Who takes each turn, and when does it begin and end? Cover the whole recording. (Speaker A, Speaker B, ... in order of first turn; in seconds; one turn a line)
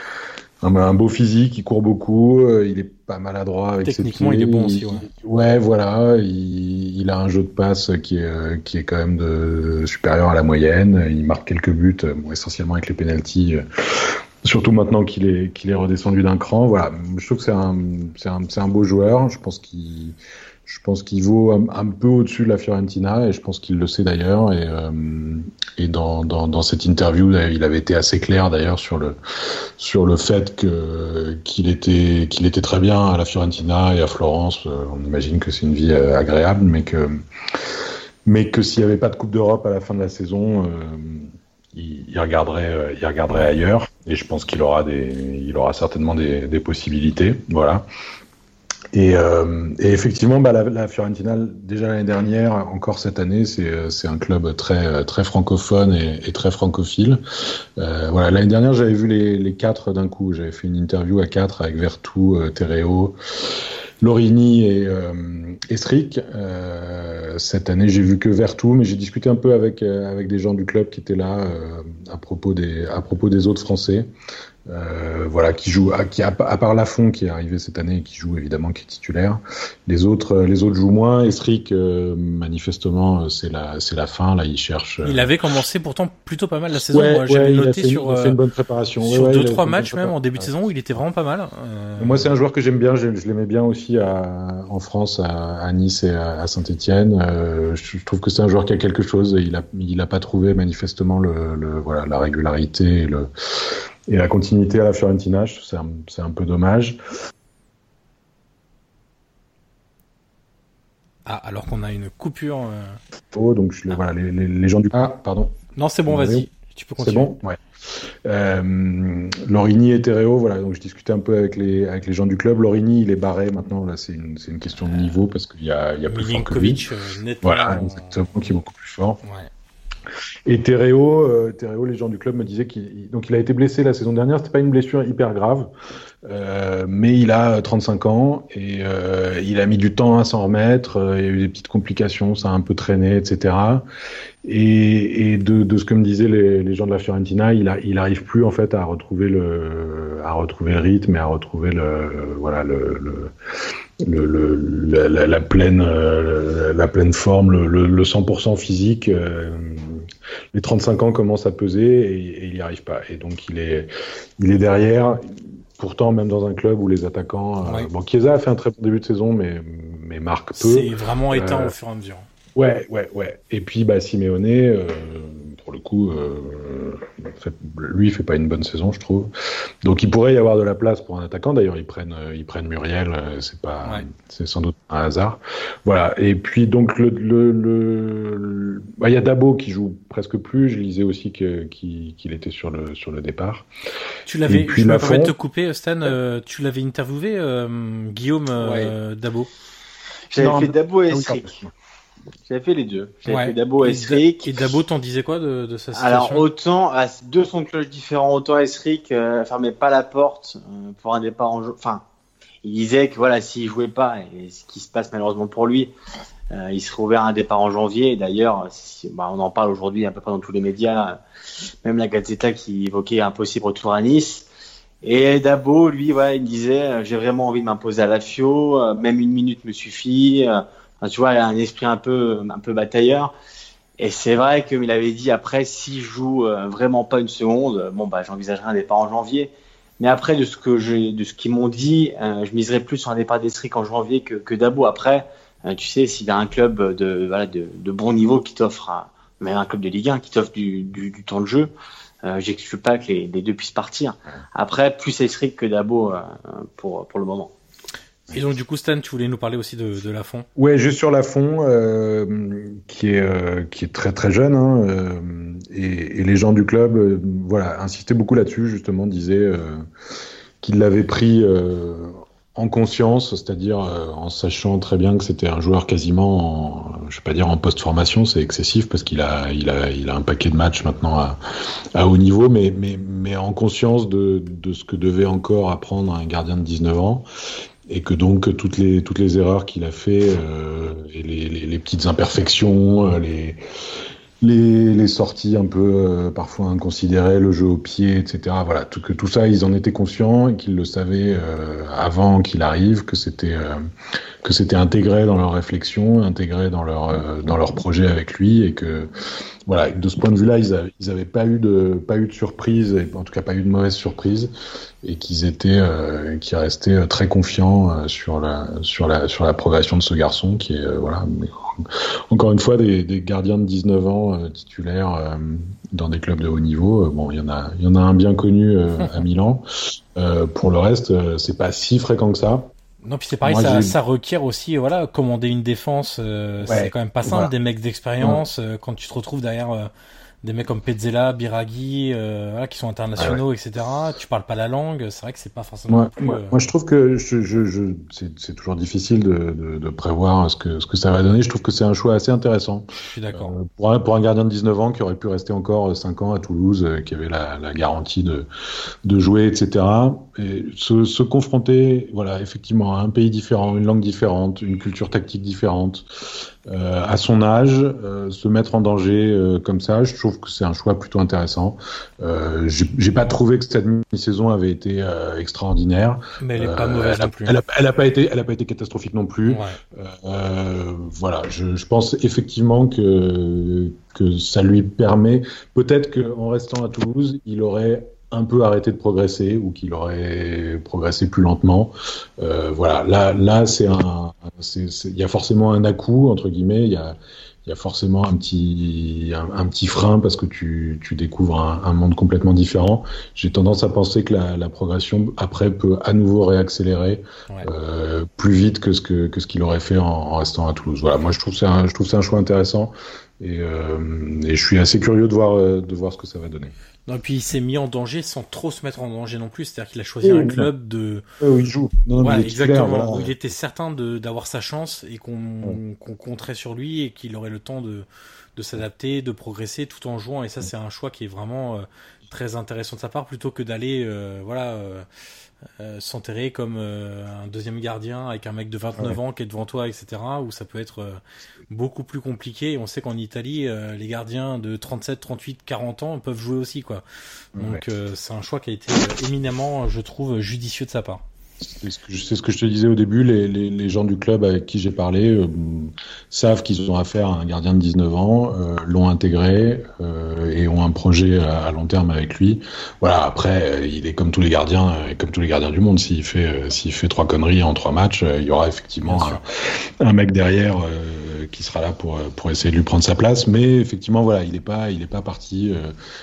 Speaker A: 0.6-47.9
Speaker B: 3.8-5.1
Speaker B: 43.3-43.5
Speaker A: 48.9-74.1
Speaker A: 74.7-85.3
Speaker B: 85.0-88.4
Speaker A: 86.8-90.5
Speaker B: 89.0-92.3
Speaker A: 92.0-107.0
Speaker B: 111.2-113.0
Speaker A: 113.3-115.5
Speaker B: 115.8-117.4
Speaker A: 116.1-117.6
Speaker A: 118.2-126.9
Speaker B: 124.7-125.2
Speaker B: 126.0-128.5
Speaker A: 127.4-129.2
Speaker B: 129.2-129.5
Speaker A: 130.4-135.7
Speaker A: 136.2-143.9
Speaker A: 144.4-153.3
Speaker A: 154.0-171.7
Speaker B: 170.6-172.3
Speaker A: 172.6-193.7
Speaker B: 194.2-199.5
Speaker A: 194.5-195.3
Speaker C: 198.6-198.9
Speaker C: 200.3-201.5
Speaker A: 200.4-201.7
Speaker C: 202.4-204.6
Speaker B: 203.3-206.4
Speaker C: 205.9-212.0
Speaker C: 212.6-215.9
Speaker C: 216.5-221.2
Speaker C: 221.8-224.5
Speaker C: 225.0-233.3
Speaker C: 234.0-251.7
Speaker C: 252.2-257.5
Speaker B: 258.3-260.5
Speaker A: 260.6-269.9
Speaker A: 270.6-281.4
Speaker A: 281.9-287.2
Speaker A: 287.9-293.6
Speaker A: 294.4-303.8
Speaker A: 304.4-309.1
Speaker A: 309.7-314.5
Speaker A: 315.0-332.7
Speaker B: 333.0-339.9
Speaker A: 333.4-333.9
Speaker A: 336.6-337.5
Speaker B: 340.4-346.6
Speaker A: 345.9-358.5
Speaker B: 353.0-353.5
Speaker A: 359.0-416.7
Speaker B: 376.4-377.6
Speaker B: 379.4-379.8
Speaker B: 417.1-421.2
Speaker A: 420.2-420.7
Speaker A: 421.4-423.3
Speaker B: 422.2-435.1
Speaker B: 435.8-447.0
Speaker B: 447.6-451.2
Speaker A: 447.6-447.8
Speaker A: 451.6-475.9
Speaker B: 469.1-469.4